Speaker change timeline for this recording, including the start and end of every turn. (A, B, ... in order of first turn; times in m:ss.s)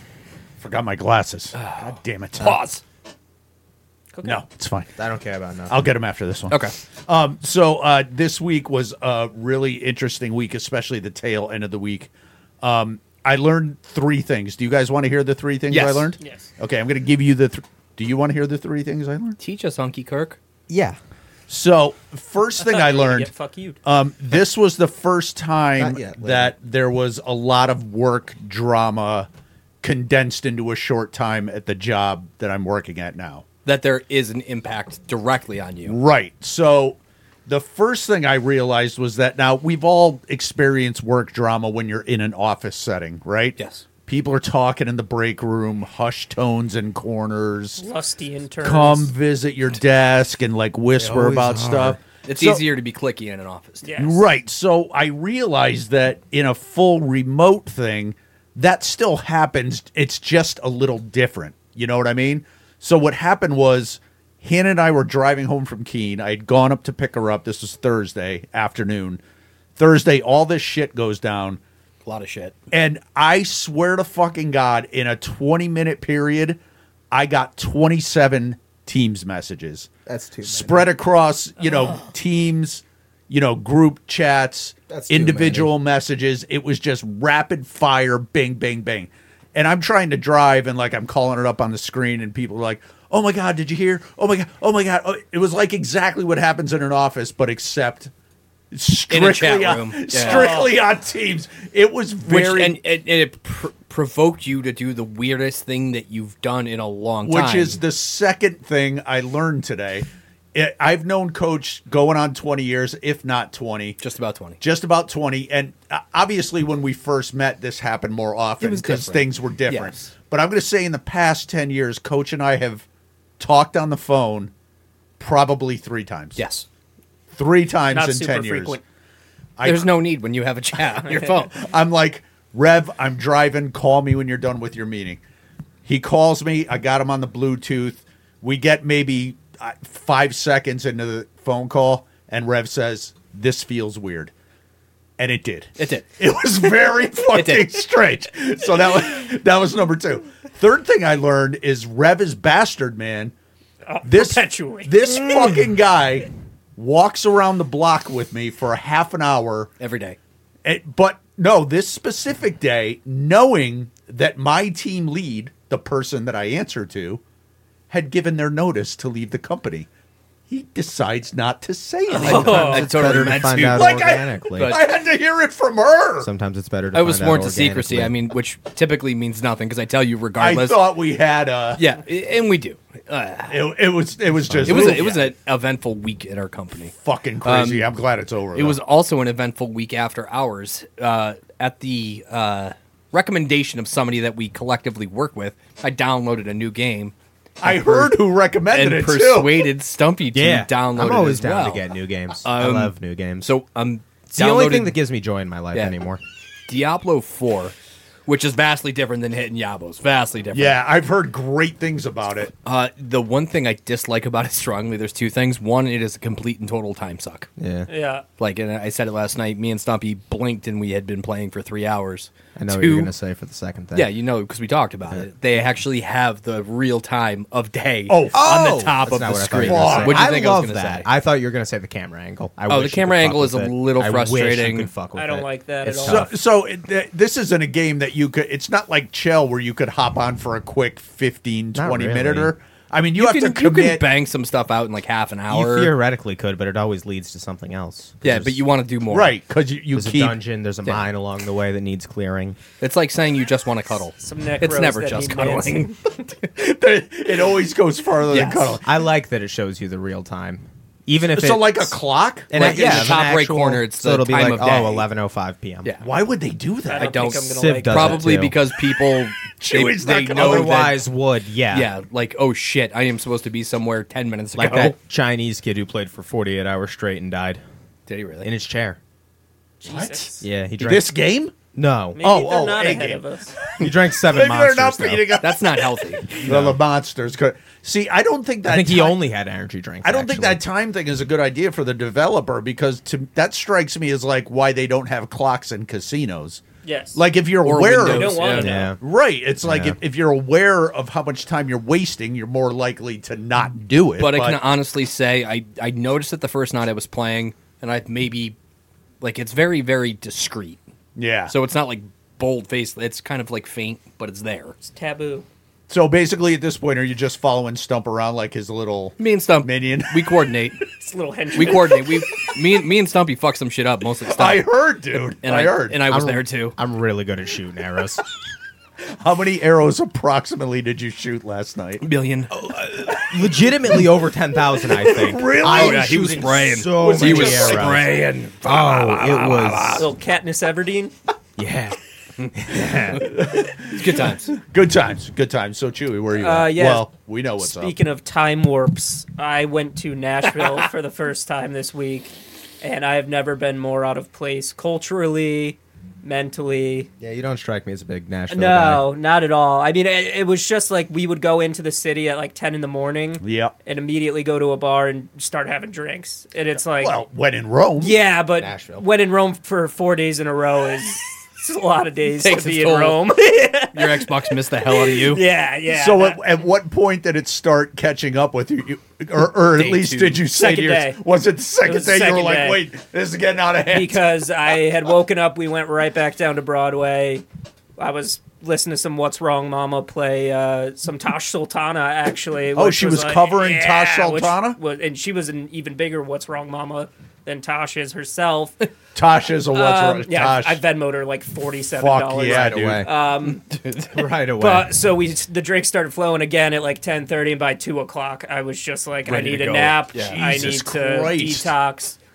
0:00.6-0:02.6 A
0:01.6-0:02.8 B
0:04.1-0:04.4 C
0:04.2-0:04.9 A
0:05.0-0:05.7 D
0:05.7-0:12.1 A
0:12.6-0:19.4 A
0:15.7-0:16.1 B
0:16.2-0:16.5 C
0:19.4-0:20.4 B
0:20.7-0:21.0 D
0:21.5-0:23.3 A
0:22.6-0:23.8 C
0:23.8-0:29.3 A
0:25.8-0:26.5 D
0:29.8-0:33.4 A
0:33.6-0:36.0 B
0:35.8-0:47.8 A
0:43.6-0:43.8 B
0:47.8-0:49.1 C
0:48.6-0:52.6 A
0:51.0-0:52.0 D
0:52.2-0:54.1 B
0:53.8-0:54.2 C
0:54.0-1:09.2 A
1:09.8-1:11.6 A
1:12.0-1:12.6 B
1:12.7-1:16.6 A
1:17.1-1:19.9 A
1:20.1-1:21.0 D
1:20.5-1:38.1 A
1:24.9-1:25.7 D
1:38.7-1:42.8 A
1:39.1-1:40.5 B
1:40.2-1:40.8 C
1:42.3-1:47.8 B
1:47.2-1:54.0 A
1:54.0-1:54.6 B
1:54.6-2:02.8 A
1:58.6-1:59.1 D
1:58.8-1:59.2 B
1:59.7-2:00.1 B
2:03.4-2:04.5 A
2:05.2-2:06.4 A
2:06.4-2:06.7 B
2:07.3-2:08.8 A
2:07.9-2:08.8 C
2:09.6-2:09.9 A
2:09.6-2:11.5 B
2:11.4-2:15.2 A
2:15.8-2:24.3 A
2:25.2-2:33.3 A
2:25.8-2:26.1 B
2:27.3-2:27.8 B
2:33.9-2:35.1 C
2:34.0-2:39.7 A
2:39.8-2:40.2 B
2:40.6-2:47.2 A
2:47.9-2:49.9 A
2:50.5-2:52.8 A
2:52.2-2:52.9 C
2:52.2-2:54.0 B
2:52.2-2:54.8 D
2:53.7-2:56.3 A
2:54.5-2:54.8 B
2:56.2-2:58.1 D
2:56.9-3:01.0 B
3:00.4-3:01.8 A
3:01.8-3:03.6 B
3:03.5-3:05.3 A
3:04.5-3:05.1 D
3:04.6-3:06.9 B
3:07.0-3:08.8 A
3:07.4-3:07.9 B
3:08.5-3:18.2 B
3:17.6-3:19.7 A
3:18.7-3:21.8 B
3:20.3-3:23.5 D
3:22.4-3:25.0 B
3:24.3-3:26.2 D
3:26.7-3:27.7 B
3:28.3-3:30.8 B
3:30.5-3:32.5 A
3:32.6-3:37.5 B
3:37.6-3:37.9 D
3:37.9-3:38.2 C
3:38.4-3:43.1 B
3:42.6-3:44.1 D
3:43.9-3:51.1 B
3:48.1-3:48.4 A
3:48.3-3:56.3 D
3:49.6-3:50.3 A
3:52.7-3:54.9 B
3:55.2-3:56.3 C
3:56.0-4:04.0 A
4:01.7-4:02.5 D
4:03.2-4:05.9 B
4:05.5-4:08.6 D
4:08.2-4:09.3 B
4:09.1-4:10.4 A
4:09.9-4:12.6 D
4:12.8-4:15.9 B
4:14.2-4:16.0 C
4:16.6-4:18.8 A
4:18.3-4:18.8 B
4:18.8-4:22.0 D
4:21.3-4:23.3 A
4:22.5-4:25.9 D
4:22.5-4:25.1 B
4:26.0-4:27.1 A
4:26.9-4:28.2 C
4:27.0-4:31.0 B
4:27.6-4:28.6 D
4:29.6-4:30.7 A
4:30.3-4:31.9 D
4:31.7-4:35.0 B
4:34.6-4:34.9 A
4:34.6-4:37.6 D
4:38.1-4:38.5 B
4:38.4-4:39.0 D
4:39.8-4:40.4 C
4:39.8-4:41.5 A
4:40.4-4:41.1 D
4:41.7-4:42.2 D
4:42.2-4:43.5 C
4:42.2-4:49.2 A
4:43.8-4:45.5 D
4:45.4-4:46.4 B
4:46.4-4:46.8 D
4:48.6-4:50.6 D
4:50.0-4:56.6 A
4:56.8-4:57.2 C
4:57.2-5:04.6 A
4:57.6-4:58.9 B
4:58.0-4:58.8 C
4:58.5-4:59.0 D
4:59.6-5:00.0 D
5:04.2-5:08.6 B
5:09.2-5:10.8 B
5:11.2-5:11.5 A
5:11.5-5:14.8 B
5:14.8-5:15.5 C
5:15.9-5:20.3 A
5:19.2-5:20.8 B
5:21.0-5:21.9 C
5:21.6-5:22.0 A
5:21.6-5:24.6 B
5:24.3-5:26.0 A
5:25.4-5:26.8 B
5:26.1-5:28.2 D
5:29.1-5:32.0 A
5:32.0-5:32.5 B
5:32.5-5:38.1 D
5:35.0-5:38.1 A
5:35.5-5:40.1 B
5:38.6-5:40.1 D
5:40.0-5:41.1 C
5:41.6-5:42.0 D
5:42.4-5:43.3 B
5:42.5-5:43.2 D
5:42.7-5:48.0 A
5:43.9-5:44.5 B
5:46.3-5:47.1 C
5:47.6-5:57.1 C
5:50.6-5:50.9 B
5:57.2-5:59.1 D
5:58.5-6:07.1 C
6:03.4-6:03.7 A
6:07.0-6:08.2 A
6:08.0-6:14.3 C
6:08.6-6:09.1 D
6:12.4-6:13.3 B
6:13.9-6:15.4 B
6:14.9-6:16.4 C
6:15.9-6:24.2 A
6:19.7-6:20.4 B
6:20.5-6:21.2 C
6:21.8-6:22.8 C
6:23.9-6:27.4 C
6:28.0-6:38.9 C
6:32.8-6:34.8 A
6:39.2-6:40.8 A
6:39.7-6:43.6 C
6:42.0-6:43.1 A
6:42.5-6:43.1 D
6:43.4-6:44.2 B
6:44.1-6:44.9 D
6:44.6-6:52.2 C
6:49.3-6:51.7 A
6:50.1-6:50.4 B